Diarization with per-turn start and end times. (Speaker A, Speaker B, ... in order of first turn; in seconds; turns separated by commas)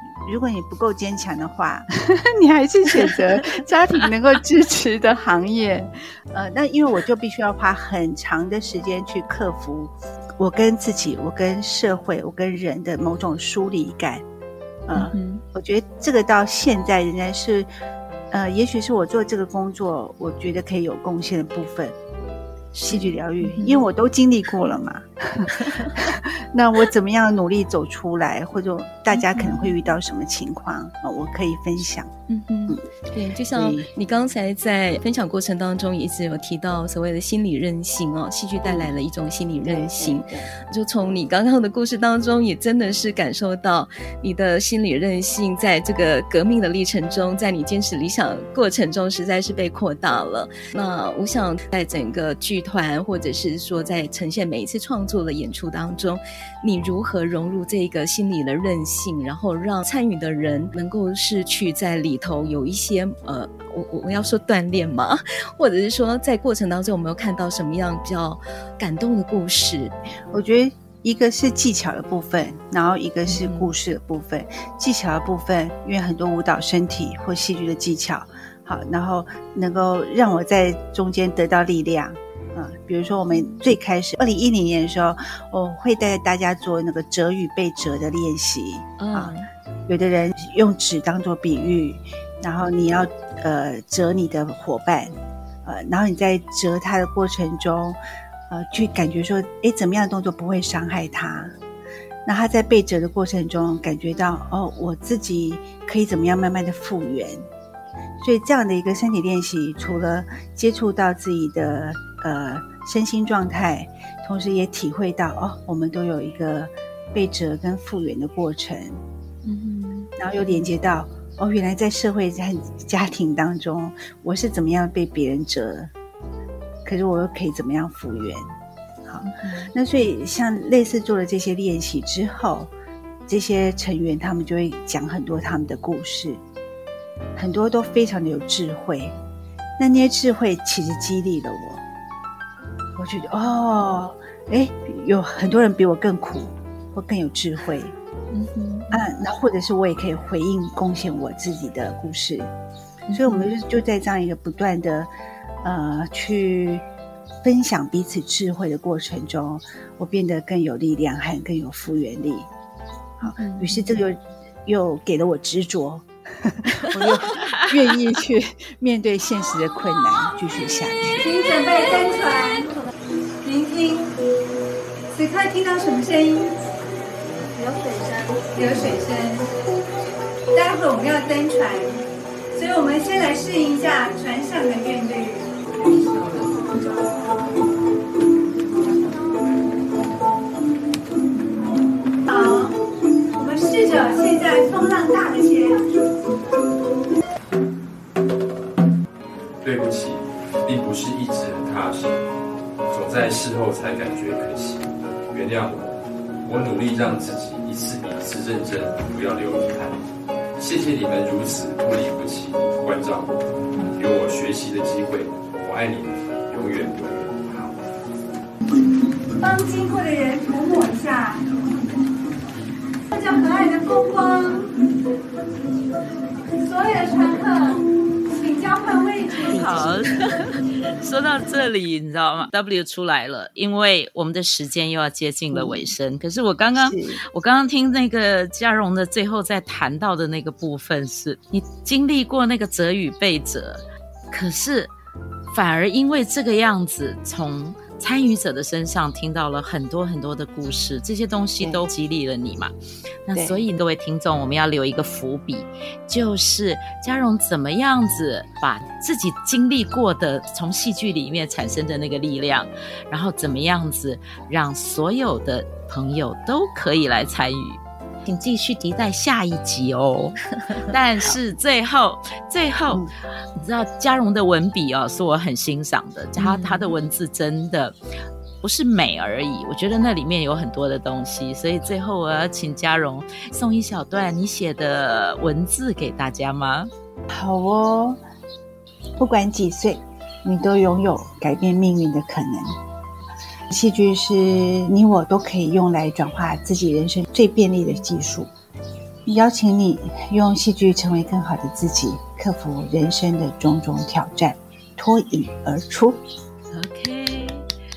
Speaker A: 0.2-14.2, Speaker A: 14.9-17.7, Speaker B: 14.9-15.4, Speaker A: 18.3-22.0, Speaker B: 22.8-23.8, Speaker A: 22.9-32.1, Speaker B: 25.6-25.9, Speaker B: 29.2-29.7, Speaker B: 32.3-69.9, Speaker A: 33.5-33.9, Speaker A: 39.6-40.5, Speaker A: 70.3-89.3, Speaker B: 73.3-73.7, Speaker B: 83.3-83.6, Speaker B: 89.0-89.5, Speaker A: 89.9-95.1, Speaker A: 95.7-98.0, Speaker A: 98.5-101.5, Speaker A: 102.2-107.4, Speaker A: 108.2-119.0, Speaker B: 119.5-120.1, Speaker A: 120.2-125.9, Speaker A: 126.8-128.4, Speaker A: 129.1-132.7, Speaker B: 129.2-129.7, Speaker A: 133.3-136.4, Speaker A: 137.4-139.2, Speaker A: 139.8-141.8, Speaker A: 143.0-147.9, Speaker B: 148.3-149.0, Speaker A: 148.9-152.5, Speaker B: 153.1-153.5, Speaker A: 153.1-155.1, Speaker A: 155.6-156.8, Speaker A: 157.4-162.5, Speaker A: 163.2-171.2, Speaker B: 163.3-164.0, Speaker C: 171.2-172.8, Speaker C: 173.4-174.1, Speaker C: 175.1-176.6, Speaker C: 177.5-179.5, Speaker C: 180.5-182.0, Speaker C: 182.5-185.5, Speaker D: 186.0-186.3, Speaker C: 186.4-187.2, Speaker C: 192.3-192.8, Speaker C: 193.3-195.9, Speaker D: 199.6-202.2, Speaker D: 202.9-205.9, Speaker D: 206.4-210.0, Speaker D: 210.6-213.3, Speaker D: 213.8-217.8, Speaker C: 219.4-221.4, Speaker C: 223.1-224.7, Speaker C: 226.5-229.9, Speaker E: 229.5-244.9, Speaker A: 229.5-230.2, Speaker A: 235.5-235.8, Speaker A: 236.8-237.2, Speaker E: 245.5-252.7, Speaker A: 251.6-251.9, Speaker E: 253.3-278.0, Speaker A: 253.3-253.6, Speaker B: 276.4-276.9, Speaker E: 278.6-286.9, Speaker A: 287.3-288.2, Speaker A: 289.2-292.8, Speaker A: 293.7-298.5, Speaker A: 299.3-306.2, Speaker E: 306.7-307.6